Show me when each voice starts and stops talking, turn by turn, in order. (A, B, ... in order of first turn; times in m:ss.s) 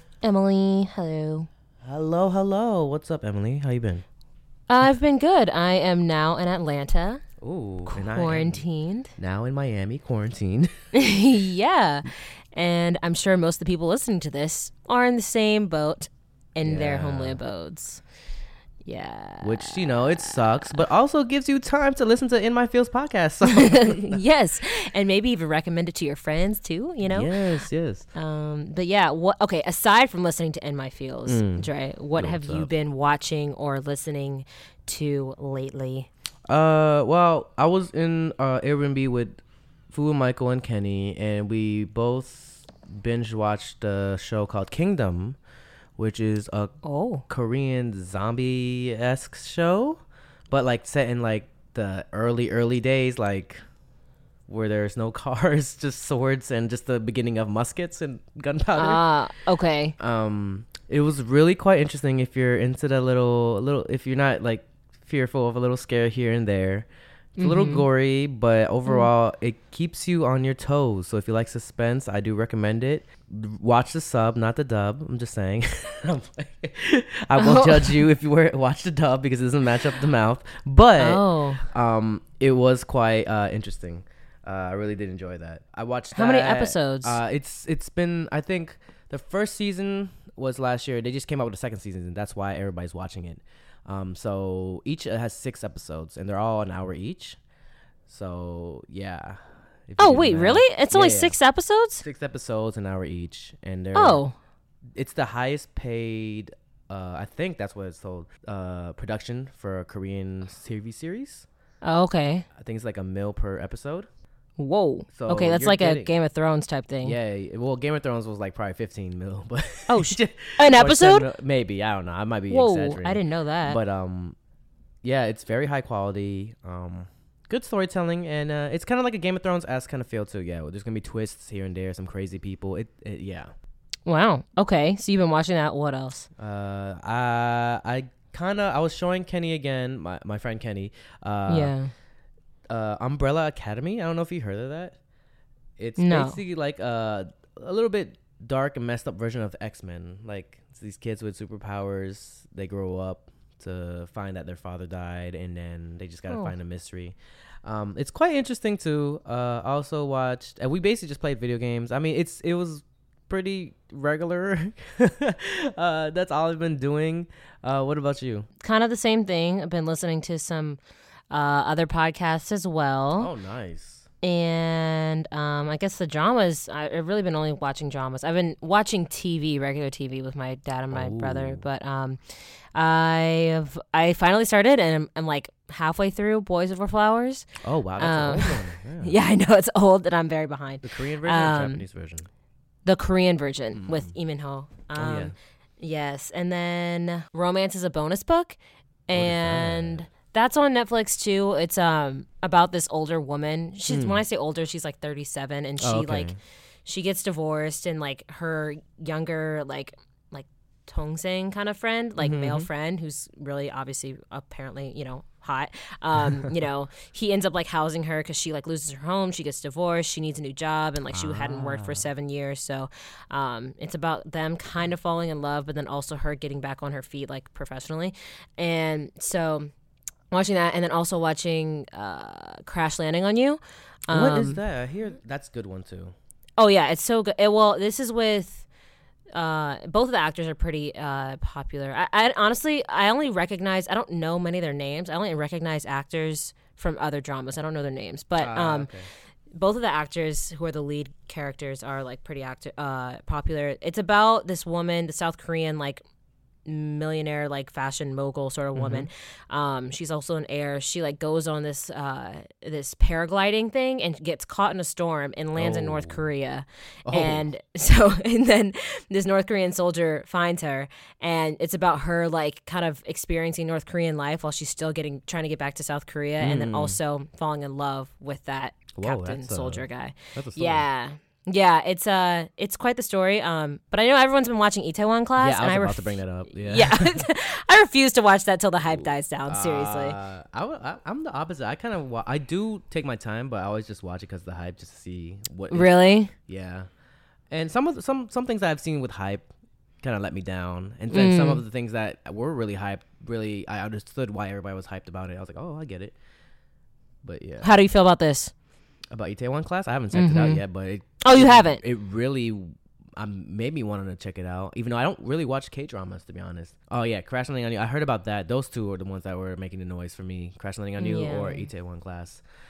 0:00.2-0:01.5 A
0:01.8-0:04.0 B
0:04.7-0:07.2 A
0:07.4-0:08.6 B
0:07.9-0:09.1 A
0:09.2-0:10.7 B
0:10.9-0:18.0 A
0:16.6-0:17.4 B
0:18.8-0:20.8 A
0:19.4-0:24.2 B
0:23.4-0:27.3 A
0:27.0-0:28.1 B
0:28.1-0:36.1 A
0:31.2-0:32.7 B
0:36.5-0:45.4 B
0:46.0-0:46.8 B
0:46.8-0:47.2 A
0:47.3-0:53.6 B
0:54.5-0:59.0 B
0:58.8-1:00.0 A
1:00.0-1:37.4 B
1:07.4-1:07.8 A
1:17.4-1:18.0 A
1:21.0-1:21.6 A
1:26.1-1:27.2 A
1:38.1-1:41.4 B
1:40.0-1:42.0 A
1:42.0-1:44.2 B
1:43.9-1:44.3 A
1:44.9-1:51.4 B
1:51.8-1:52.5 A
1:52.5-1:54.1 B
1:54.6-1:57.2 A
1:55.1-1:56.1 B
1:57.0-2:04.4 B
1:59.9-2:01.3 A
2:02.5-2:03.8 A
2:05.0-2:13.5 B
2:14.0-2:16.3 A
2:16.4-2:21.7 B
2:21.5-2:21.9 A
2:22.7-2:25.0 B
2:25.8-2:48.5 B
2:26.0-2:26.4 A
2:48.6-2:50.8 A
2:51.3-2:53.3 A
2:53.2-2:54.0 B
2:54.2-3:02.2 A
3:00.9-3:01.6 B
3:02.7-3:07.5 A
3:07.6-3:09.2 B
3:08.0-3:11.8 A
3:10.8-3:12.3 B
3:12.8-3:49.7 A
3:13.7-3:14.1 B
3:15.0-3:15.3 B
3:19.1-3:20.1 B
3:23.9-3:24.2 B
3:25.8-3:26.4 B
3:32.2-3:32.7 B
3:41.1-3:42.1 B
3:50.3-3:54.6 A
3:54.1-3:56.1 B
3:56.6-3:58.6 A
3:59.3-4:08.9 A
4:08.4-4:09.1 B
4:09.5-4:16.0 A
4:16.6-4:50.2 A
4:18.7-4:19.1 B
4:25.5-4:26.3 B
4:27.0-4:27.5 B
4:36.4-4:37.0 B
4:38.9-4:40.8 B
4:45.4-4:47.3 B
4:48.8-4:56.9 B
4:55.7-4:56.3 A
4:57.5-4:59.5 B
5:00.0-5:06.1 B
5:01.1-5:01.6 A
5:07.2-5:07.7 B
5:07.6-5:08.5 A
5:09.1-5:22.4 B
5:10.1-5:10.6 A
5:11.2-5:11.8 A
5:21.0-5:21.7 A